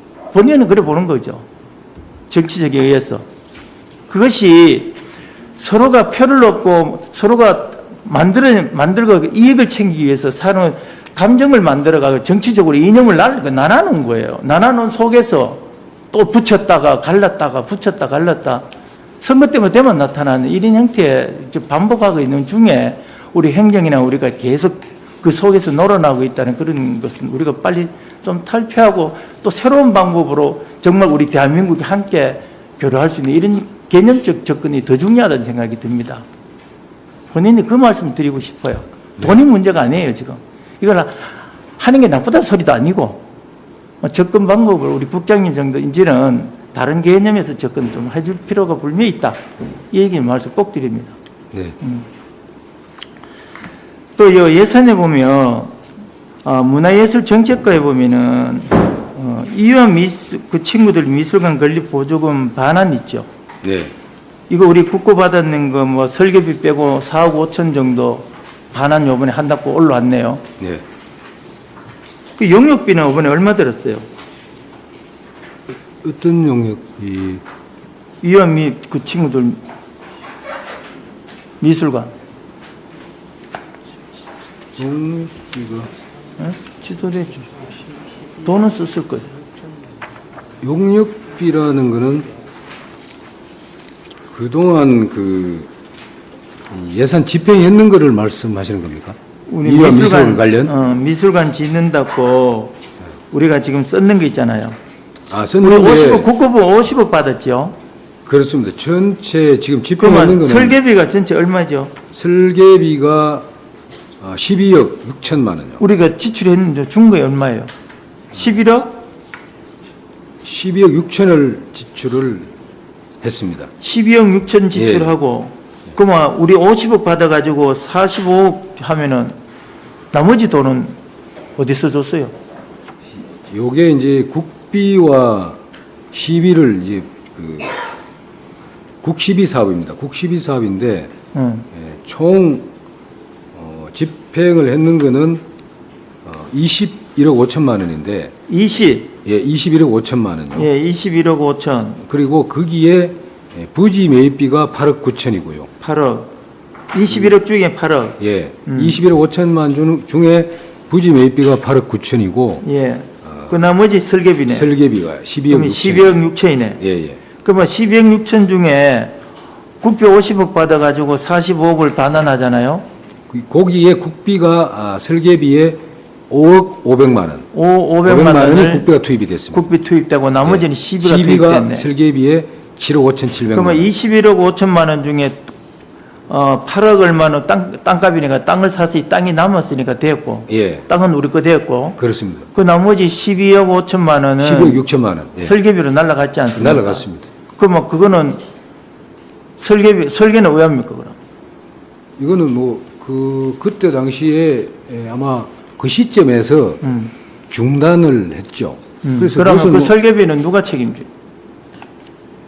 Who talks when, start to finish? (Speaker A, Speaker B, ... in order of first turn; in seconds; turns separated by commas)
Speaker A: 0.3-1.4, Speaker A: 2.3-3.2, Speaker A: 4.1-5.0, Speaker A: 5.6-18.6, Speaker A: 19.2-36.2, Speaker A: 37.3-43.2, Speaker A: 44.0-49.4, Speaker A: 49.9-51.1, Speaker B: 51.5-51.8, Speaker A: 54.2-55.7, Speaker A: 56.4-63.3, Speaker B: 63.6-63.9, Speaker A: 64.5-70.4, Speaker A: 72.4-74.0, Speaker B: 76.0-77.4, Speaker A: 78.2-79.6, Speaker A: 81.6-82.1, Speaker B: 84.7-85.9, Speaker A: 86.4-87.5, Speaker A: 88.4-89.3, Speaker B: 90.6-92.3, Speaker B: 94.3-95.7, Speaker B: 96.7-100.7, Speaker A: 99.5-102.7, Speaker A: 103.3-104.8, Speaker B: 105.3-106.3, Speaker A: 105.6-107.7, Speaker B: 108.2-110.8, Speaker A: 110.0-111.9, Speaker B: 112.1-113.5, Speaker B: 114.2-115.8, Speaker A: 115.8-117.7, Speaker A: 118.3-119.0, Speaker B: 120.4-122.5, Speaker B: 123.2-123.7, Speaker A: 123.8-129.3, Speaker B: 124.7-125.1, Speaker A: 130.1-130.9, Speaker A: 131.6-132.3, Speaker B: 133.5-135.6, Speaker B: 136.1-137.8, Speaker B: 139.0-141.1, Speaker A: 141.3-141.7, Speaker B: 141.7-142.7, Speaker B: 143.5-145.4, Speaker B: 146.2-148.3, Speaker A: 148.5-149.1, Speaker B: 149.2-150.7, Speaker A: 150.5-152.0, Speaker B: 152.0-155.7, Speaker A: 155.8-156.3, Speaker A: 156.9-159.0, Speaker B: 158.2-162.6, Speaker A: 162.6-164.7, Speaker B: 163.2-163.6, Speaker B: 164.5-166.2, Speaker A: 165.5-166.8, Speaker B: 166.8-167.2, Speaker A: 167.4-169.1, Speaker A: 169.8-172.8, Speaker B: 173.3-177.5, Speaker A: 177.5-178.9, Speaker B: 178.0-179.7, Speaker A: 179.5-181.8, Speaker B: 180.4-183.9, Speaker A: 183.5-185.5, Speaker A: 186.3-192.0, Speaker B: 190.5-190.8, Speaker B: 192.0-192.5, Speaker A: 192.5-194.8, Speaker B: 194.4-195.6, Speaker A: 195.4-198.4, Speaker B: 196.6-197.3, Speaker A: 199.6-201.2, Speaker B: 202.2-206.8, Speaker A: 206.8-207.1, Speaker B: 207.5-209.9, Speaker A: 209.0-211.1